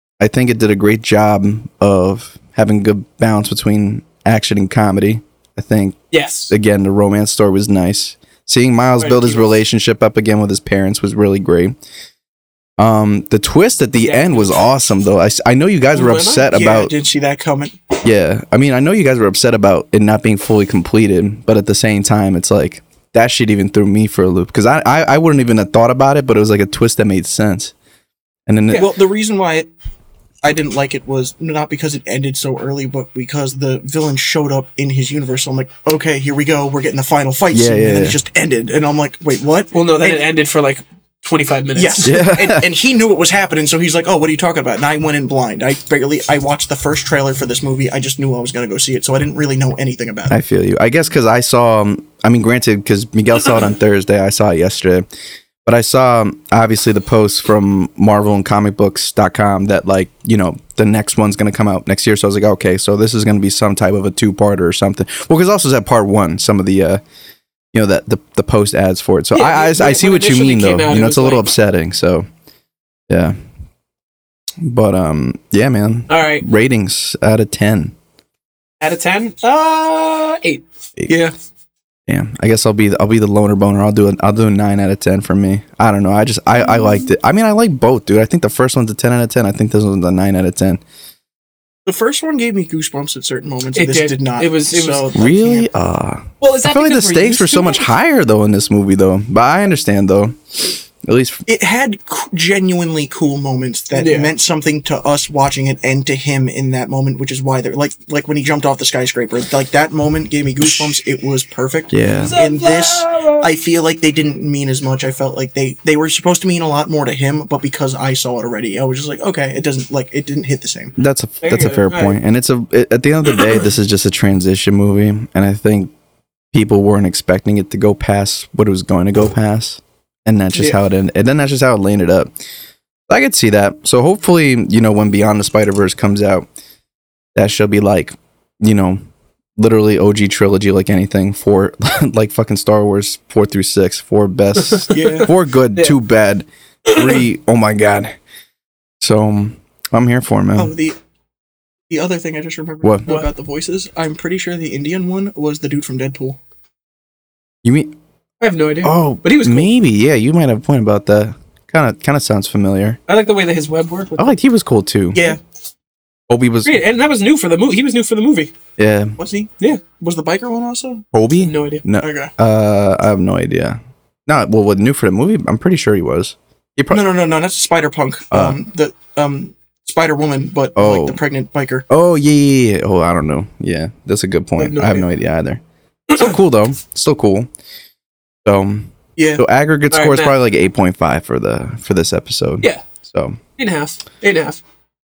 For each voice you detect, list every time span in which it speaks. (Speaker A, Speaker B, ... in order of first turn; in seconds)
Speaker A: 0.2-11.8, 12.8-16.9, 18.0-27.7, 28.5-28.9, 37.5-38.2, 42.0-42.6, 50.3-55.1, 55.7-67.0, 67.7-72.2, 73.1-73.3, 74.6-78.0, 82.1-90.8, 95.1-101.5, 111.9-112.3, 121.0-125.9, 126.5-132.3, 133.1-136.5, 137.3-139.0, 139.6-148.1, 149.0-150.7, 157.6-157.9, 158.8-163.0, 164.2-165.3, 166.3-166.8, 168.8-169.2, 171.1-177.0, 178.3-178.6, 180.8-181.2, 181.9-185.6, 186.1-187.5, 188.5-193.4
Speaker B: 6.1-6.5, 9.0-9.6, 14.0-14.7, 15.9-16.5, 39.7-42.1, 69.3-71.5, 76.1-76.5, 78.8-81.3, 93.8-95.1, 96.4-97.9, 103.9-104.3, 112.2-113.5, 121.4-122.2, 144.8-146.0, 146.9-147.2, 158.4-159.7, 163.1-164.4, 166.6-168.5, 171.4-171.8, 184.6-185.1, 189.9-190.3, 193.6-194.6
Speaker C: 16.5-17.8, 28.7-29.7, 30.4-40.2, 41.8-50.4, 91.9-95.7, 101.5-121.0, 144.9-145.3, 150.6-151.0, 151.9-156.4, 165.1-165.4, 169.2-171.1, 172.0-172.3, 176.9-181.9, 189.2-189.4